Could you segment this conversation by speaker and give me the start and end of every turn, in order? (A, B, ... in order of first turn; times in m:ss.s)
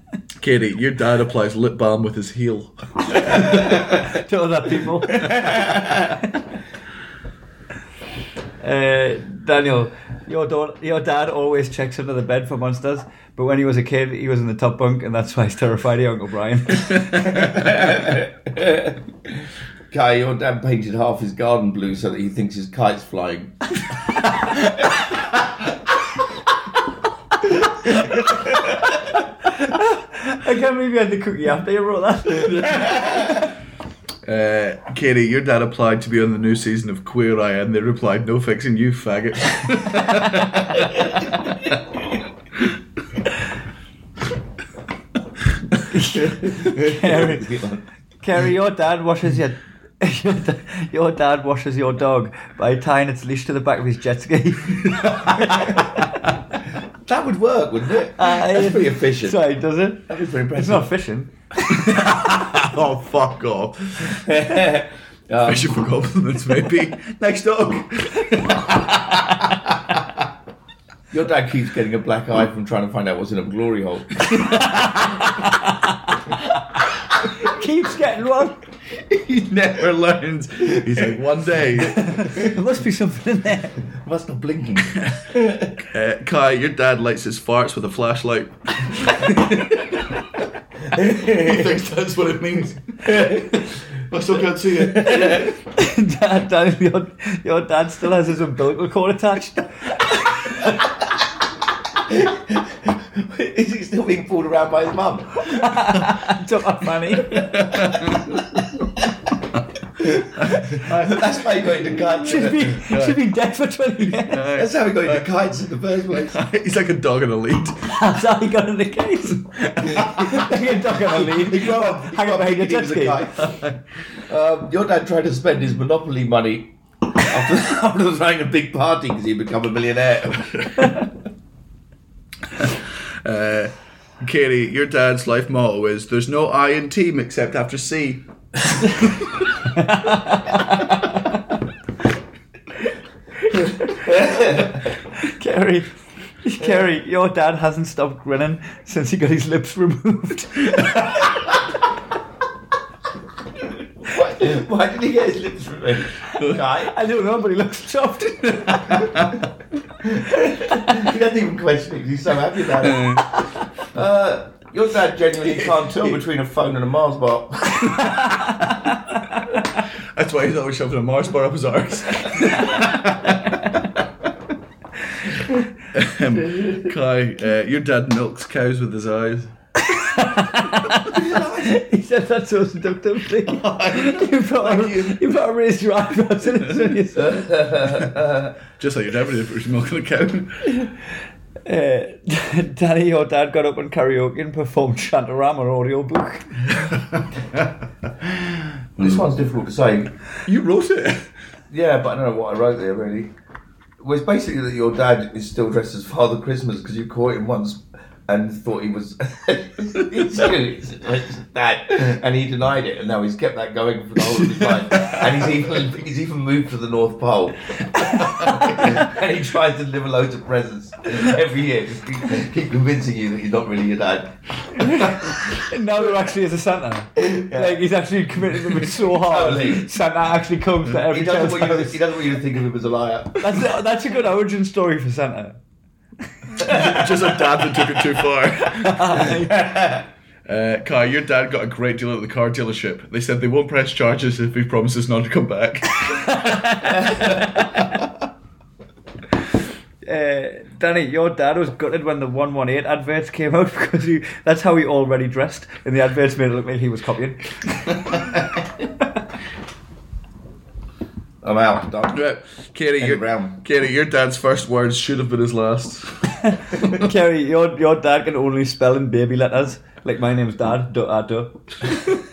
0:00.4-0:03.9 A
0:03.3-0:06.0 B
0:08.6-0:17.5 B
0:17.3-0:23.8 C
0:29.5-0:33.3 B
0:32.4-0:33.3 A
0:34.3-0:41.7 A
0:45.9-0:47.5 B
0:46.4-0:47.8 C
0:48.2-0:56.0 B
0:57.0-0:59.4 C
0:58.2-1:02.2 B
1:00.1-1:00.9 C
1:01.7-1:04.2 A
1:04.0-1:05.8 C
1:05.4-1:09.5 A
1:11.1-1:14.3 C
1:14.3-1:15.4 A
1:17.3-1:18.6 B
1:19.1-1:22.3 A
1:21.9-1:23.8 B
1:24.0-1:25.7 C
1:25.0-1:30.2 A
1:31.0-1:35.5 A
1:31.0-1:31.5 C
1:35.0-1:40.6 B
1:42.0-1:45.6 C
1:45.5-1:47.5 B
1:47.2-1:48.4 A
1:50.2-1:52.9 C
1:50.4-1:51.3 A
1:52.0-1:54.5 B
1:52.8-1:53.2 A
1:54.2-1:55.3 A
1:54.5-1:56.4 C
1:56.1-1:58.0 A
1:57.9-2:03.2 B
1:59.6-2:00.5 A
2:00.0-2:00.7 C
2:01.1-2:02.0 A
2:01.2-2:03.6 C
2:03.4-2:03.8 A
2:04.2-2:10.5 C
2:10.5-2:11.0 A
2:13.2-2:18.2 A
2:18.8-2:19.5 A
2:19.7-2:21.2 B
2:23.6-2:24.6 B
2:24.0-2:24.8 C
2:25.2-2:25.9 B
2:26.4-2:31.4 B
2:34.0-2:37.0 C
2:36.6-2:39.2 B
2:38.8-2:39.4 A
2:40.0-2:43.3 C
2:42.8-2:43.3 A
2:43.9-2:48.1 C
2:45.6-2:45.9 A
2:48.2-2:48.5 B
2:50.2-2:53.8 A
2:55.9-2:59.5 A
2:59.8-3:07.5 B
3:00.9-3:01.8 A
3:03.4-3:05.4 A
3:06.5-3:06.9 A
3:07.2-3:08.5 C
3:07.9-3:08.1 A
3:08.8-3:10.7 A
3:11.6-3:16.7 B
3:18.2-3:19.2 A
3:19.0-3:20.1 C
3:20.5-3:21.3 A
3:21.7-3:23.3 C
3:24.0-3:45.0 C
3:34.7-3:35.2 A
3:38.0-3:38.8 B
3:44.8-3:52.0 B
3:47.2-3:47.8 C
3:49.1-3:49.9 C
3:51.0-3:53.7 C
3:53.4-3:55.6 B
3:56.5-3:57.4 B
3:56.6-3:59.6 A
3:58.6-3:59.5 B
3:59.5-4:00.0 C
4:00.5-4:07.5 A
4:06.1-4:07.9 B
4:10.0-4:17.6 B
4:21.4-4:22.2 C
4:22.1-4:27.0 A
4:23.0-4:23.6 C
4:26.5-4:32.0 B